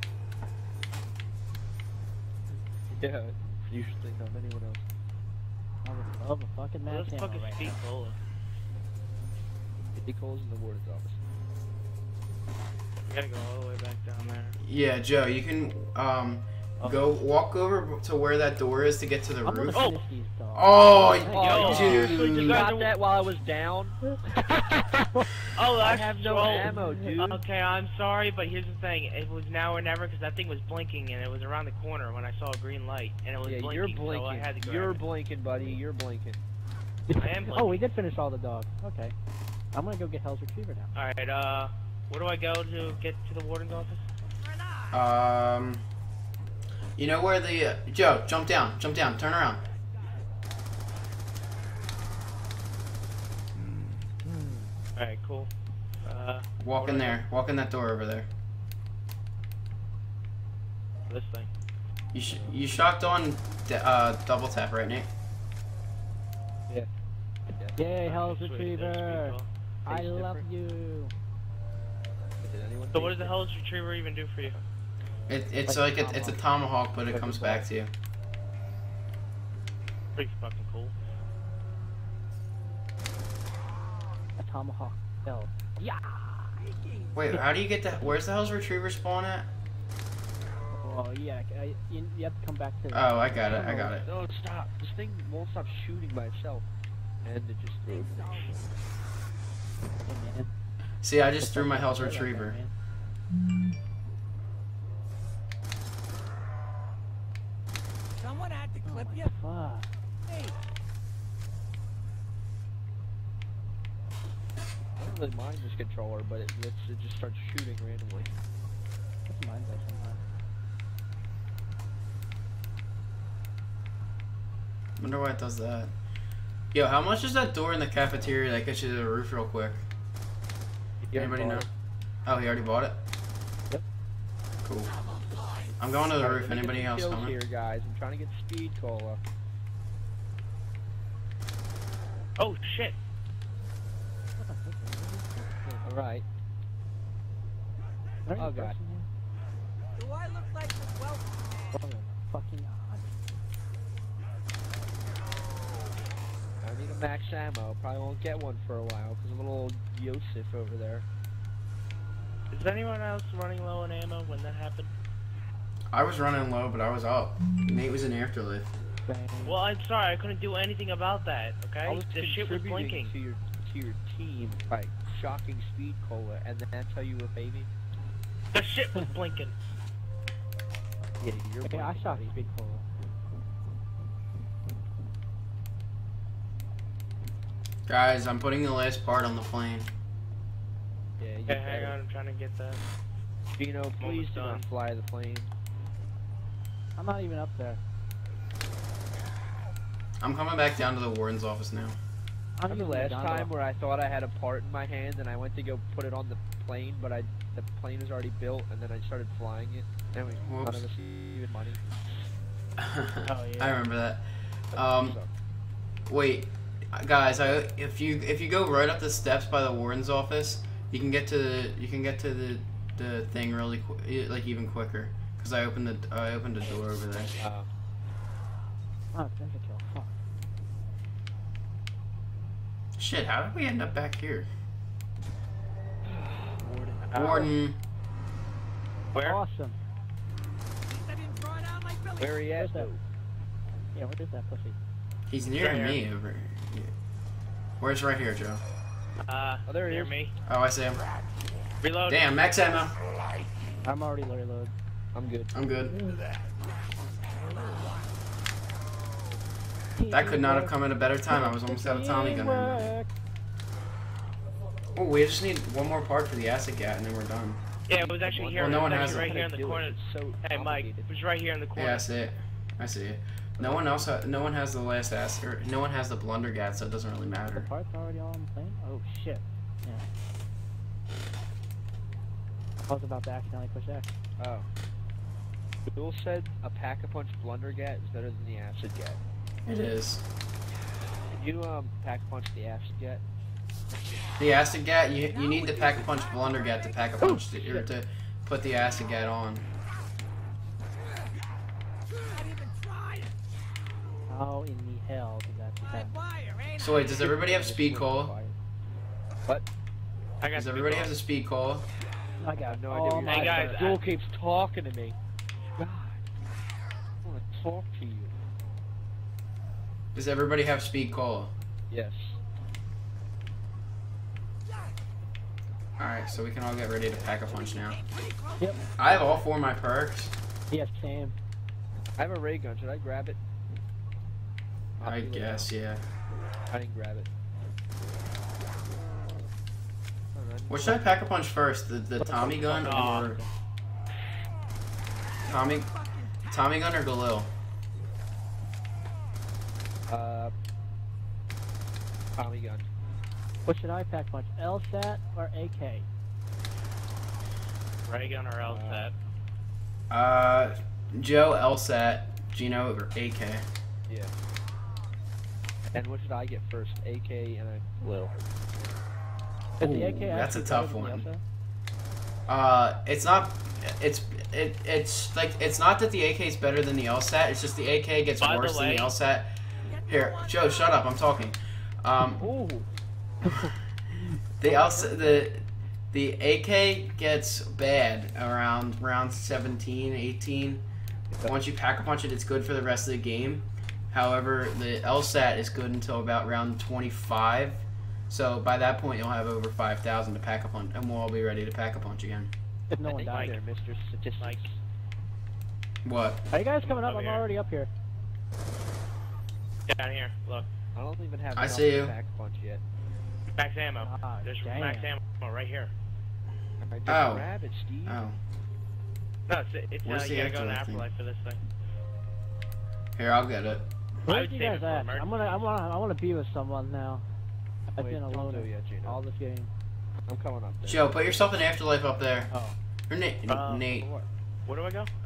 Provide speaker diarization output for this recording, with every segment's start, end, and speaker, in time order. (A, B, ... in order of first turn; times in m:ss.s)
0:02.9-0:04.8 A
0:05.8-0:07.8 B
0:06.9-0:08.2 C
0:09.9-0:11.2 A
0:13.1-0:14.6 C
0:14.6-0:19.8 D
0:19.4-0:22.1 B
0:19.7-0:20.0 C
0:20.5-0:22.6 D
0:21.3-0:24.0 A
0:21.3-0:22.9 C
0:24.1-0:25.3 B
0:25.5-0:35.1 C
0:25.8-0:27.4 A
0:26.7-0:27.1 B
0:33.4-0:36.4 A
0:37.1-0:39.1 B
0:37.1-0:37.9 C
0:39.7-0:40.9 B
0:40.9-0:44.0 C
0:44.9-0:45.8 D
0:47.0-0:49.6 D
0:53.6-0:54.0 D
0:54.2-0:54.7 B
0:55.0-0:55.5 C
0:56.0-0:57.2 C
0:56.6-0:58.3 D
1:01.1-1:01.5 C
1:02.1-1:05.1 D
1:02.3-1:02.6 A
1:07.5-1:07.8 A
1:07.8-1:11.1 B
1:08.0-1:09.5 C
1:09.8-1:10.4 A
1:12.4-1:13.4 A
1:12.9-1:14.6 C
1:15.3-1:17.9 D
1:15.7-1:16.3 B
1:17.1-1:17.7 A
1:20.2-1:20.9 C
1:24.4-1:26.3 B
1:27.1-1:29.5 D
1:30.7-1:34.0 B
1:32.9-1:34.1 D
1:34.0-1:36.6 A
1:37.2-1:38.5 A
1:40.0-1:40.5 B
1:41.0-1:42.6 D
1:41.4-1:42.7 B
1:48.4-1:48.7 E
1:48.8-1:49.9 B
1:55.0-1:58.3 A
1:59.3-2:00.2 B
2:05.0-2:05.9 D
2:06.7-2:09.8 D
2:11.0-2:11.7 A
2:11.1-2:11.7 D
2:12.2-2:13.0 D
2:14.6-2:14.9 D
2:15.8-2:17.4 D
2:16.2-2:19.2 A
2:22.4-2:23.0 C
2:24.4-2:25.8 B
2:25.8-2:26.2 A
2:28.2-2:29.0 B
2:28.3-2:28.8 A
2:30.0-2:31.2 E
2:31.7-2:33.1 B
2:36.6-2:41.0 A
2:42.5-2:44.9 C
2:45.9-2:48.7 D
2:49.0-2:49.6 B
2:49.4-2:53.1 C
2:51.8-2:57.7 A
2:58.5-2:59.5 C
3:01.2-3:02.3 A
3:01.6-3:02.8 B
3:07.9-3:09.9 D
3:11.2-3:12.0 A
3:11.5-3:12.8 C
3:13.6-3:15.5 A
3:14.0-3:14.6 C
3:17.0-3:17.8 B
3:20.2-3:22.0 D
3:22.6-3:23.5 B
3:22.7-3:32.3 A
3:30.4-3:30.9 D
3:32.8-3:35.2 D
3:33.2-3:33.8 B
3:34.7-3:35.3 A
3:36.1-3:47.4 D
3:47.4-3:47.7 A
3:49.1-3:50.1 B
3:53.0-3:54.5 D
3:56.0-3:57.3 A
3:57.1-3:57.5 C
3:57.1-3:57.8 D
3:59.1-3:59.4 C
3:59.1-3:59.8 B
4:01.1-4:02.2 E
4:02.2-4:03.0 A
4:02.5-4:02.9 B
4:03.9-4:04.8 B
4:05.3-4:06.9 D
4:05.5-4:06.0 C
4:07.8-4:08.6 D
4:09.2-4:10.3 C
4:09.7-4:10.2 A
4:10.4-4:11.0 D
4:11.8-4:12.2 C
4:12.1-4:13.0 D
4:13.8-4:14.7 B
4:15.1-4:15.5 A
4:15.5-4:16.0 D
4:19.9-4:23.1 B
4:20.1-4:22.9 D
4:25.0-4:27.6 D
4:27.9-4:32.1 C
4:27.9-4:31.1 A
4:28.6-4:29.3 D
4:31.7-4:37.7 D
4:33.6-4:34.1 A
4:37.5-4:40.0 B
4:42.9-4:44.1 B
4:44.4-4:44.7 A
4:45.9-4:49.2 A
4:49.6-4:50.2 D
4:51.3-4:53.2 A
4:54.4-4:59.7 D
4:57.2-4:57.9 B
5:02.4-5:03.3 E
5:04.3-5:06.2 B
5:06.3-5:06.7 E
5:06.8-5:08.3 D
5:07.1-5:08.6 A
5:10.4-5:11.2 C
5:10.5-5:11.9 D
5:12.4-5:13.7 B
5:12.6-5:15.2 A
5:13.2-5:14.0 C
5:15.8-5:16.2 A
5:17.2-5:18.3 A
5:20.1-5:21.5 D
5:21.9-5:22.4 A
5:26.0-5:28.0 D
5:27.1-5:27.7 A
5:28.9-5:30.3 D
5:29.0-5:29.4 A
5:30.7-5:31.4 B
5:32.2-5:33.4 A
5:35.0-5:35.7 A
5:35.0-5:36.0 D
5:36.7-5:37.3 A
5:40.3-5:41.1 A
5:40.7-5:43.4 D
5:42.2-5:43.5 B
5:42.8-5:43.3 C
5:45.4-5:47.5 D
5:50.1-5:50.5 A
5:52.4-5:52.9 A
5:53.6-5:56.1 B
5:58.0-5:59.1 C
5:58.6-5:59.1 A
6:00.1-6:03.6 D
6:05.9-6:08.3 A
6:09.8-6:11.4 B
6:09.8-6:11.3 D
6:12.5-6:22.4 D
6:18.4-6:19.1 C
6:22.4-6:22.9 A
6:23.4-6:23.7 B
6:24.6-6:30.8 D
6:24.6-6:25.4 A
6:31.3-6:31.6 A
6:31.4-6:42.5 D
6:42.9-6:43.6 B
6:43.0-6:43.6 C
6:43.0-6:44.8 A
6:46.0-6:46.4 D
6:46.5-6:47.9 B
6:46.8-6:47.4 C
6:49.9-6:50.7 C
6:50.9-6:52.8 A
6:51.5-6:52.2 D
6:53.5-6:55.9 C
6:54.0-6:55.1 B
6:56.8-6:58.2 A
6:57.1-6:57.5 D
6:58.0-6:58.4 D
6:59.5-7:01.6 C
7:00.0-7:01.1 D
7:03.2-7:03.9 D
7:04.2-7:05.6 C
7:04.3-7:07.2 B
7:07.9-7:09.7 B
7:08.0-7:09.2 A
7:10.3-7:11.1 A
7:10.8-7:12.5 D
7:12.5-7:12.8 B
7:13.1-7:14.1 D
7:13.5-7:14.0 C
7:14.6-7:15.1 C